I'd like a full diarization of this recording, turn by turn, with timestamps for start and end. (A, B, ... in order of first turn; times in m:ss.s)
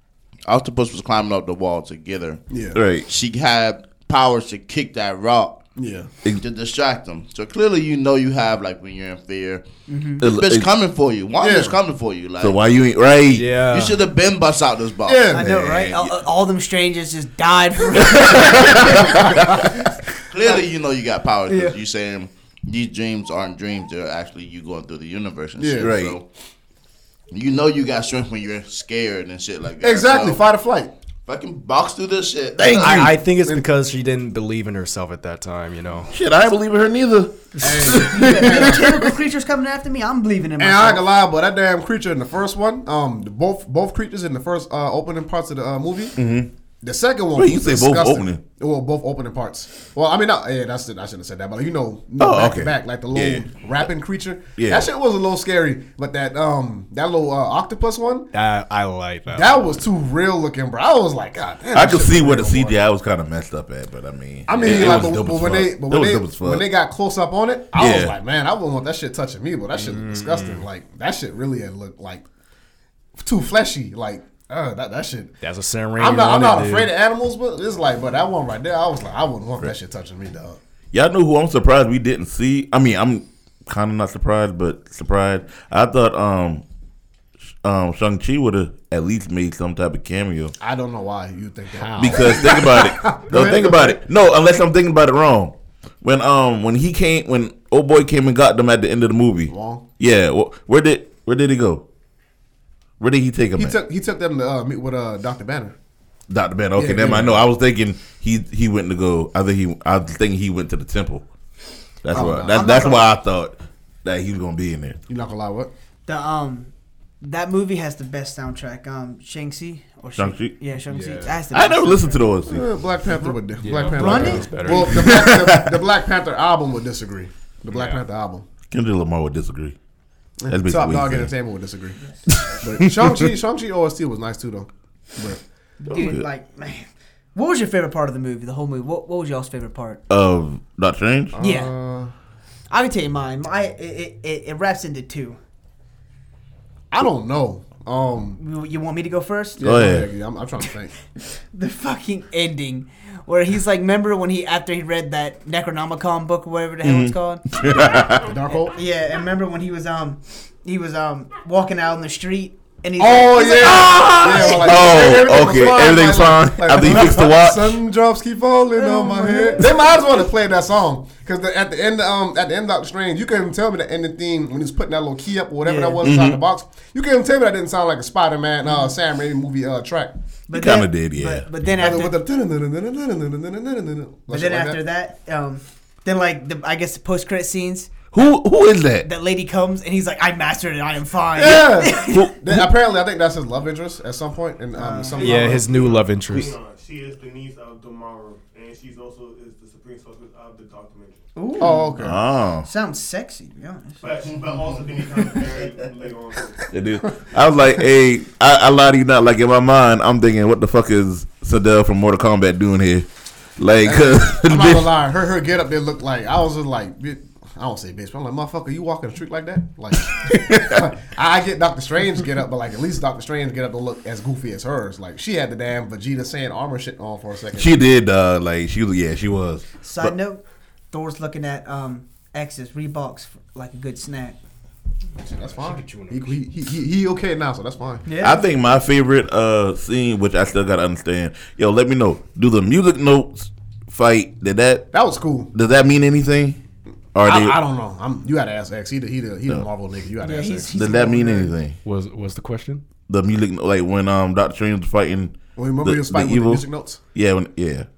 0:00.5-0:02.4 A
0:02.5-0:02.8 B
0:02.8-0:03.1 C
0:03.1-0:05.6 A
0:05.8-0:06.1 B
0:06.4-0:09.6 A
0:09.9-0:10.2 D
0:10.2-0:12.6 A
0:10.2-0:10.7 C
0:11.4-0:11.8 B
0:12.4-0:13.5 C
0:13.3-0:14.1 E
0:13.7-0:15.4 A
0:15.1-0:15.5 B
0:15.3-0:19.3 D
0:15.4-0:16.1 C
0:18.0-0:19.5 C
0:20.3-0:26.2 A
0:21.5-0:21.8 D
0:25.6-0:25.9 B
0:25.8-0:26.2 C
0:27.3-0:30.4 A
0:29.8-0:30.9 B
0:31.3-0:33.0 A
0:32.6-0:33.2 C
0:32.8-0:36.1 E
0:36.1-0:39.0 C
0:37.6-0:39.0 B
0:37.8-0:41.1 D
0:40.6-0:46.2 B
0:46.2-0:46.5 C
0:46.8-0:58.3 B
0:47.4-0:48.4 C
0:52.2-0:53.5 C
0:54.6-0:54.9 C
0:58.3-0:59.8 E
0:59.3-1:02.8 B
1:01.7-1:06.6 C
1:04.5-1:12.2 B
1:07.8-1:08.2 C
1:09.8-1:10.6 E
1:13.2-1:15.4 B
1:15.4-1:16.9 E
1:16.0-1:20.6 B
1:20.9-1:26.6 C
1:27.6-1:30.5 C
1:30.6-1:34.0 B
1:32.0-1:41.8 C
1:39.5-1:39.8 B
1:43.0-1:43.8 C
1:43.6-1:45.8 B
1:46.3-1:51.3 C
1:46.8-1:47.4 B
1:52.0-1:55.0 C
1:52.1-1:52.9 B
1:52.2-1:53.1 D
1:55.1-1:55.7 B
1:56.1-2:02.3 D
2:00.2-2:00.6 C
2:00.9-2:01.4 E
2:01.5-2:02.6 C
2:02.5-2:08.5 B
2:03.6-2:05.2 E
2:03.8-2:04.9 D
2:04.8-2:05.8 C
2:07.7-2:08.0 E
2:08.7-2:09.8 C
2:10.4-2:12.0 B
2:10.5-2:11.3 C
2:12.3-2:13.0 C
2:12.6-2:15.4 B
2:15.8-2:20.0 D
2:15.9-2:16.2 C
2:20.1-2:21.4 C
2:21.3-2:22.1 B
2:21.4-2:21.7 D
2:22.7-2:25.4 D
2:26.9-2:28.4 B
2:28.4-2:29.6 D
2:29.6-2:30.9 B
2:29.6-2:30.1 C
2:31.5-2:37.4 D
2:36.8-2:38.3 C
2:38.2-2:38.8 B
2:38.5-2:44.7 D
2:43.0-3:00.1 B
2:43.6-2:47.8 C
2:48.8-2:49.7 D
2:55.6-2:56.0 D
2:56.0-2:56.4 C
2:58.7-2:58.9 D
3:00.5-3:02.2 D
3:00.5-3:01.5 C
3:01.8-3:04.8 B
3:04.3-3:07.9 D
3:08.1-3:09.1 C
3:09.0-3:12.3 D
3:11.4-3:16.0 B
3:12.0-3:12.6 C
3:14.8-3:15.5 D
3:15.2-3:21.3 F
3:15.2-3:16.5 E
3:21.4-3:22.0 D
3:21.6-3:22.2 B
3:22.0-3:22.7 C
3:22.6-3:24.1 D
3:24.0-3:26.7 F
3:26.7-3:33.1 C
3:33.6-3:34.9 C
3:33.8-3:47.7 B
3:40.2-3:40.9 C
3:47.6-3:50.1 C
3:49.8-3:54.4 D
3:55.2-3:58.1 B
3:55.3-3:56.4 E
3:58.1-3:58.4 D
3:58.2-4:04.9 C
4:04.9-4:05.5 B
4:05.5-4:06.6 C
4:07.2-4:07.6 C
4:07.2-4:10.7 B
4:10.2-4:11.5 D
4:10.7-4:11.8 C
4:11.8-4:12.8 E
4:13.1-4:17.9 C
4:15.6-4:17.0 B